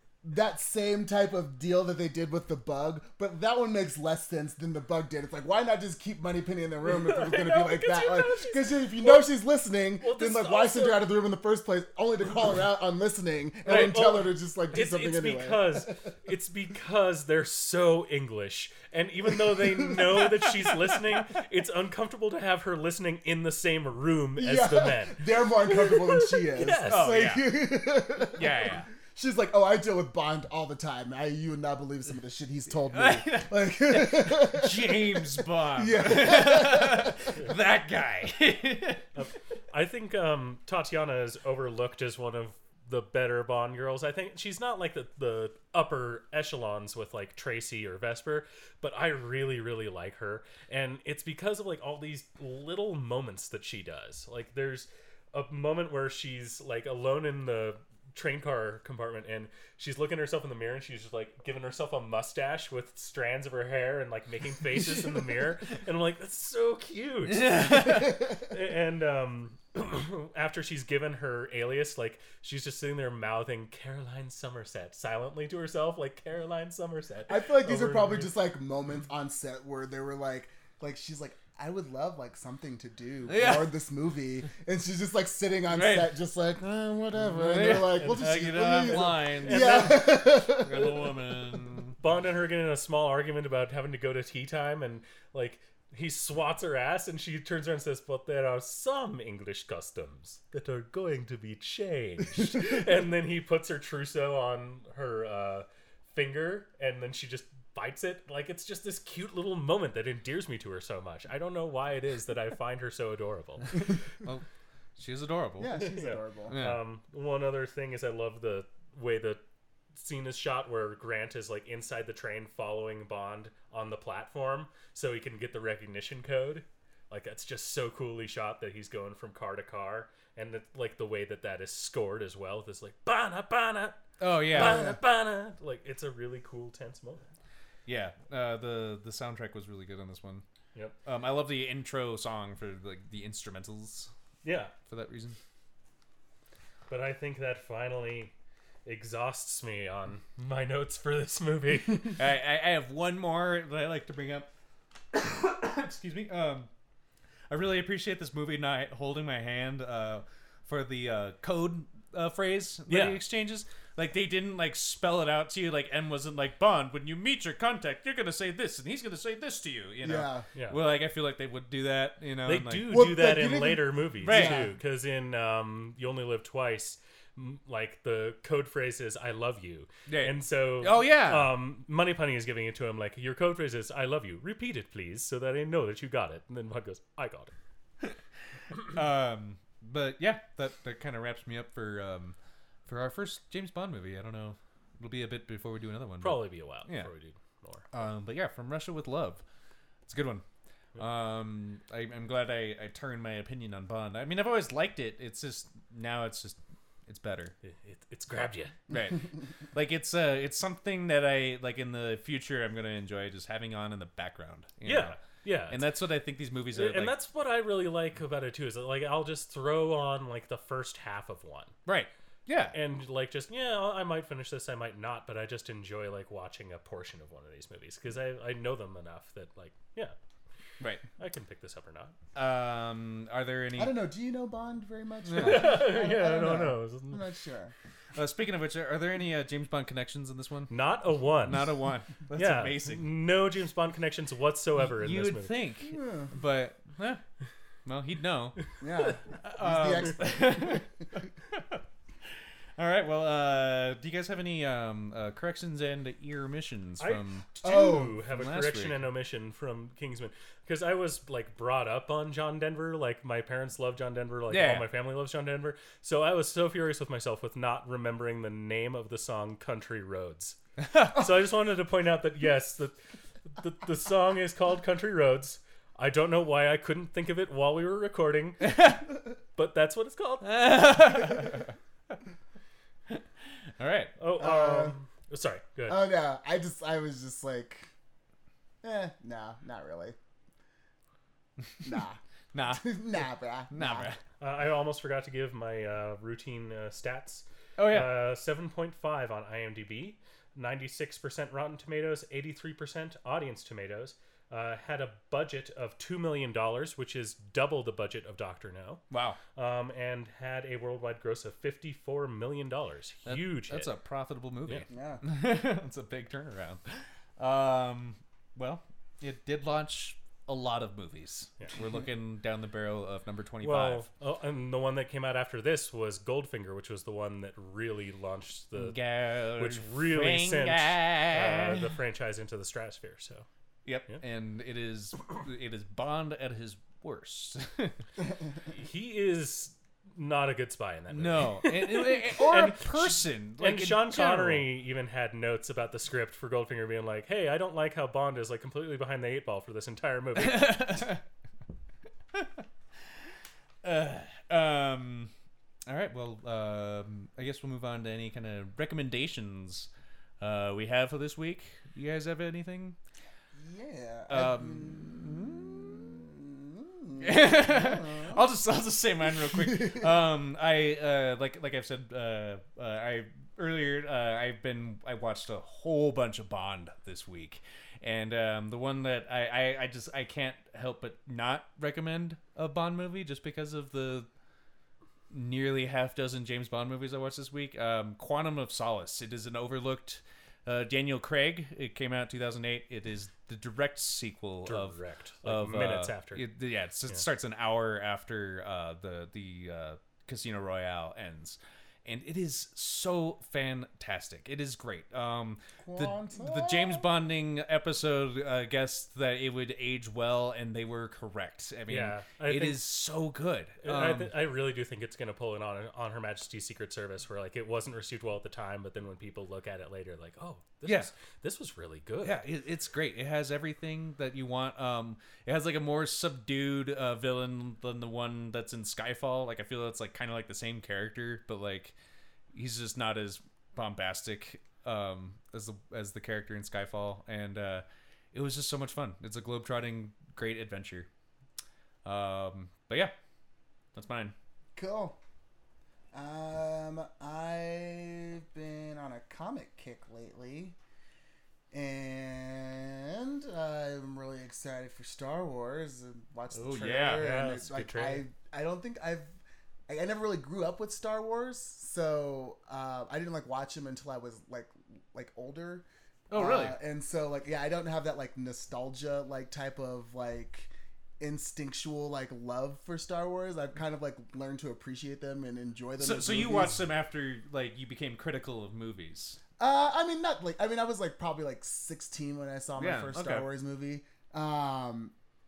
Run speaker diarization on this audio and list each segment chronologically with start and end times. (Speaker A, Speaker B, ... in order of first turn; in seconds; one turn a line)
Speaker A: 0.2-16.1
Speaker B: 6.9-9.3
Speaker B: 10.0-11.1
Speaker B: 13.7-27.2
Speaker A: 19.3-20.5
Speaker A: 24.4-37.3
Speaker C: 26.9-27.5
Speaker C: 28.3-28.9
Speaker C: 32.9-39.0
Speaker B: 39.1-78.3
Speaker C: 67.3-68.2
Speaker A: 77.3-91.1
Speaker C: 83.3-83.7
Speaker C: 85.7-86.1
Speaker C: 87.2-92.0
Speaker B: 88.7-90.2
Speaker B: 92.0-113.8
Speaker C: 115.0-115.8
Speaker A: 115.6-116.6
Speaker B: 115.7-119.4
Speaker C: 116.5-116.8
Speaker B: 120.0-137.2
Speaker C: 134.2-134.9
Speaker C: 137.9-140.4
Speaker C: 141.0-144.1
Speaker B: 144.4-144.7
Speaker C: 144.9-145.4
Speaker B: 146.9-148.3
Speaker B: 148.8-152.2
Speaker C: 152.2-154.5
Speaker C: 155.1-156.7
Speaker C: 157.5-172.9
Speaker B: 162.9-163.2
Speaker A: 170.0-170.5
Speaker B: 172.4-187.5
Speaker A: 172.9-174.7
Speaker C: 174.2-174.7
Speaker C: 180.1-181.5
Speaker C: 188.9-197.1
Speaker B: 196.2-197.8
Speaker C: 197.9-199.4
Speaker C: 200.1-200.4
Speaker C: 201.0-207.5
Speaker B: 207.7-208.8
Speaker C: 208.9-217.1
Speaker B: 214.8-215.8
Speaker B: 216.7-221.7
Speaker C: 221.9-222.8
Speaker B: 222.6-230.2
Speaker B: 231.2-232.1
Speaker C: 232.3-233.9
Speaker A: 233.8-237.7
Speaker C: 235.2-235.8
Speaker B: 235.3-237.2
Speaker C: 238.2-240.7
Speaker B: 240.7-241.8
Speaker C: 241.4-243.0
Speaker B: 242.3-245.5
Speaker C: 245.0-247.2
Speaker A: 245.9-246.3
Speaker C: 247.9-248.6
Speaker A: 248.8-250.9
Speaker C: 249.3-250.9
Speaker C: 251.5-251.8
Speaker C: 252.8-257.5
Speaker B: 257.0-270.6
Speaker A: 257.6-258.2
Speaker C: 258.3-259.1
Speaker C: 264.5-264.9
Speaker C: 270.8-271.2
Speaker B: 271.1-273.0
Speaker B: 273.5-279.0
Speaker C: 278.6-279.0
Speaker B: 279.6-280.9
Speaker C: 280.4-281.7
Speaker C: 283.8-284.1
Speaker B: 284.2-286.0
Speaker A: 284.4-284.9
Speaker A: 285.9-287.9
Speaker A: 288.8-290.2
Speaker A: 291.8-292.2
Speaker C: 292.5-294.2
Speaker A: 292.7-294.1
Speaker B: 294.4-309.0
Speaker C: 297.8-298.2
Speaker C: 309.1-309.4
Speaker B: 309.6-313.9
Speaker C: 313.2-324.1
Speaker A: 314.9-315.2
Speaker B: 323.6-329.0
Speaker C: 328.8-331.9
Speaker B: 329.6-333.5
Speaker C: 333.9-338.0
Speaker B: 338.7-351.1
Speaker C: 341.1-344.7
Speaker C: 350.4-351.2
Speaker C: 352.3-352.6
Speaker C: 353.8-355.3
Speaker C: 355.9-359.9
Speaker C: 360.4-363.0
Speaker A: 363.5-368.4
Speaker C: 364.3-365.6
Speaker C: 367.2-384.3
Speaker A: 369.4-370.1
Speaker C: 385.3-414.3
Speaker B: 394.7-396.4
Speaker A: 405.8-407.1
Speaker B: 411.9-412.8
Speaker B: 413.8-422.4
Speaker C: 420.9-421.1
Speaker C: 422.2-431.9
Speaker C: 432.5-441.1
Speaker C: 442.1-443.1
Speaker C: 443.9-444.3
Speaker A: 444.8-445.2
Speaker A: 446.1-450.8
Speaker A: 451.7-459.4
Speaker C: 456.5-457.3
Speaker B: 457.1-458.2
Speaker A: 459.9-476.9
Speaker C: 466.3-466.8
Speaker C: 476.0-479.4
Speaker A: 479.6-485.1
Speaker C: 482.8-483.5